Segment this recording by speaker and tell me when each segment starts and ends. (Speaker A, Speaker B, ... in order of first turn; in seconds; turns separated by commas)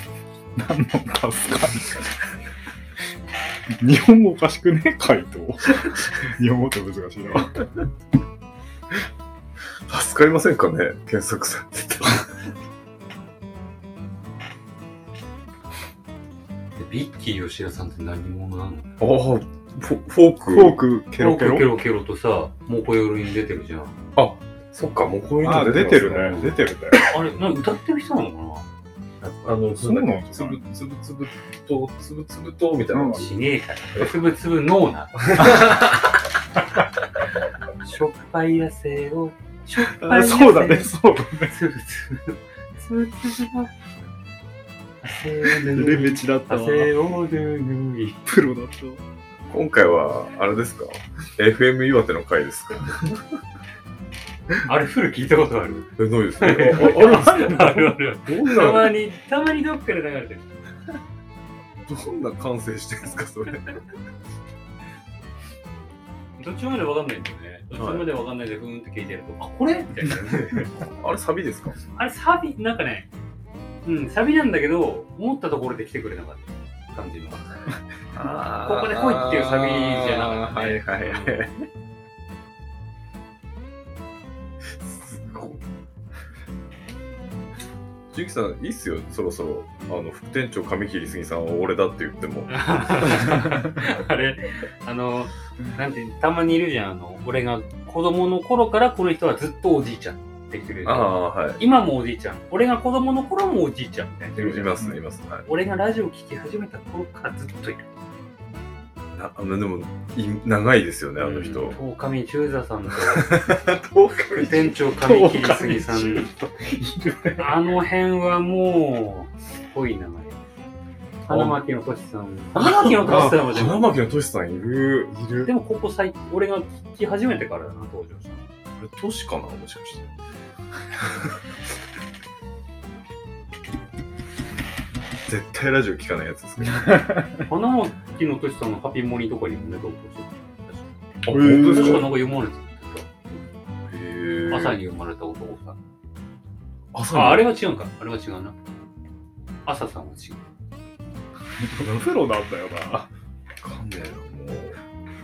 Speaker A: 0.6-2.1, Speaker A: 3.8-7.7, Speaker B: 9.9-12.4, Speaker C: 16.8-18.9, Speaker B: 19.0-20.8, Speaker A: 20.5-21.7, Speaker C: 21.2-23.9, Speaker B: 24.2-26.4, Speaker A: 25.4-27.1, Speaker C: 26.2-28.7, Speaker C: 29.2-29.7, Speaker B: 29.4-33.3, Speaker A: 29.8-30.6, Speaker A: 32.9-33.2, Speaker C: 33.1-35.6, Speaker B: 35.4-35.9, Speaker C: 37.8-40.9, Speaker A: 39.9-41.5, Speaker C: 41.5-43.7, Speaker C: 45.0-48.2, Speaker A: 45.6-46.9, Speaker A: 48.2-49.0, Speaker B: 49.5-53.2, Speaker C: 54.6-60.5, Speaker B: 56.0-58.9, Speaker B: 61.9-63.8, Speaker C: 66.4-70.8, Speaker B: 67.8-68.1, Speaker B: 70.8-71.8, Speaker C: 72.0-73.1, Speaker C: 73.8-77.7, Speaker B: 78.1-81.5, Speaker C: 78.6-81.5, Speaker B: 84.8-85.6, Speaker B: 88.1-93.8, Speaker C: 92.5-104.8, Speaker B: 100.8-101.6, Speaker B: 104.4-105.5, Speaker C: 105.5-107.9, Speaker B: 109.1-111.8, Speaker C: 111.2-113.6, Speaker B: 113.1-114.8, Speaker C: 114.4-116.3, Speaker A: 115.0-117.6, Speaker C: 117.4-120.4, Speaker B: 121.3-121.6, Speaker C: 121.3-123.9, Speaker B: 122.6-125.5, Speaker C: 125.4-128.5, Speaker B: 128.8-130.1, Speaker B: 135.3-137.2, Speaker A: 136.7-137.4, Speaker C: 137.5-143.2, Speaker B: 141.2-142.1, Speaker A: 141.3-142.1, Speaker B: 143.9-144.8, Speaker C: 144.5-145.8, Speaker B: 146.9-147.5, Speaker C: 147.1-148.6, Speaker C: 149.7-150.4, Speaker A: 151.7-153.1, Speaker B: 153.6-154.8